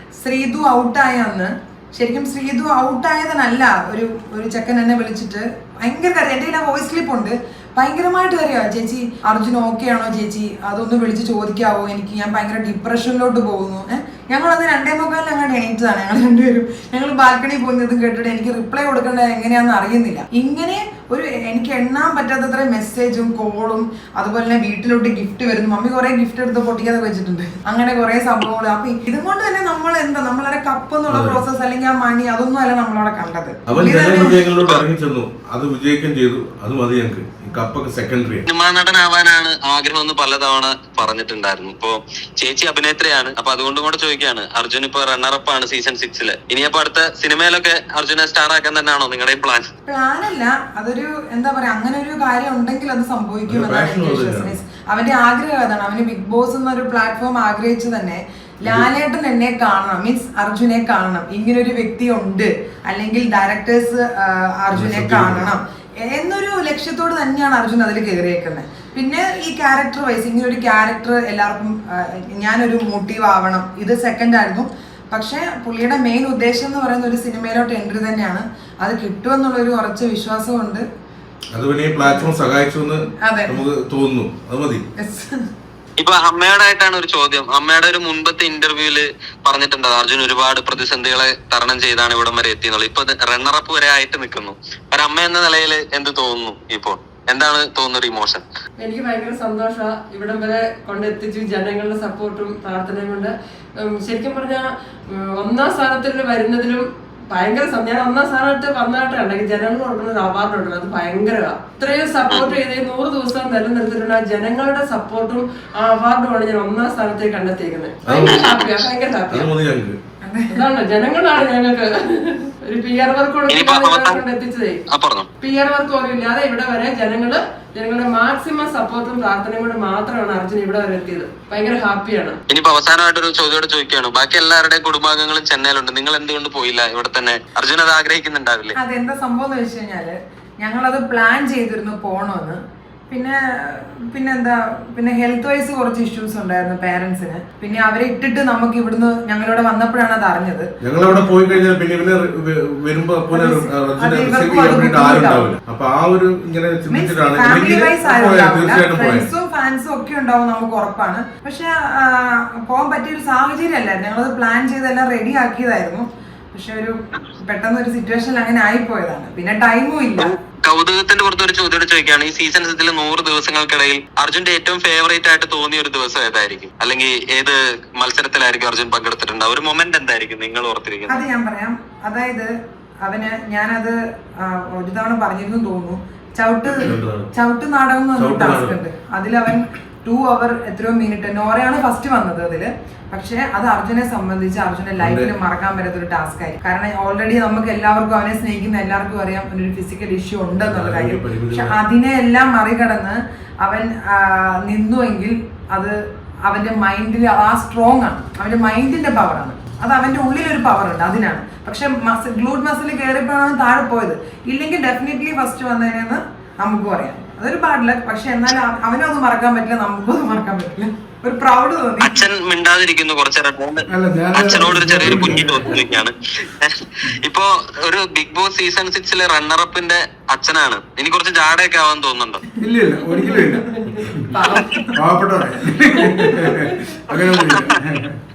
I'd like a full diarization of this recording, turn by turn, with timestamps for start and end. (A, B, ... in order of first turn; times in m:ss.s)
0:00.2-0:34.4 A
0:31.1-0:31.4 B
0:33.7-0:38.4 B
0:34.6-0:34.8 C
0:38.4-0:49.7 C
0:49.8-1:20.8 A
0:53.5-0:54.6 B
1:04.7-1:05.5 B
1:21.5-1:24.8 B
1:22.0-1:22.3 A
1:23.2-1:23.6 A
1:25.0-1:25.4 A
1:26.0-1:38.4 C
1:38.8-1:59.5 D
1:52.3-1:52.5 C
1:58.0-1:58.5 B
1:58.2-1:58.7 C
1:59.3-2:00.0 B
2:00.2-2:00.6 A
2:00.5-2:04.8 D
2:03.5-2:04.2 C
2:04.9-2:05.3 C
2:05.4-2:12.4 D
2:12.5-2:18.8 C
2:18.8-2:30.7 A
2:30.8-2:39.3 B
2:33.3-2:35.5 A
2:36.9-2:50.3 A
2:50.2-3:01.2 C
3:01.1-3:02.5 A
3:03.0-3:42.2 A
3:06.8-3:07.3 B
3:08.2-3:08.8 B
3:15.0-3:15.3 B
3:20.6-3:21.8 B
3:42.0-3:52.4 C
3:43.9-3:45.8 E
3:45.0-3:45.4 B
3:52.6-3:54.4 E
3:53.0-3:54.9 D
3:54.5-3:54.9 C
3:54.9-3:58.2 E
3:57.4-3:57.7 C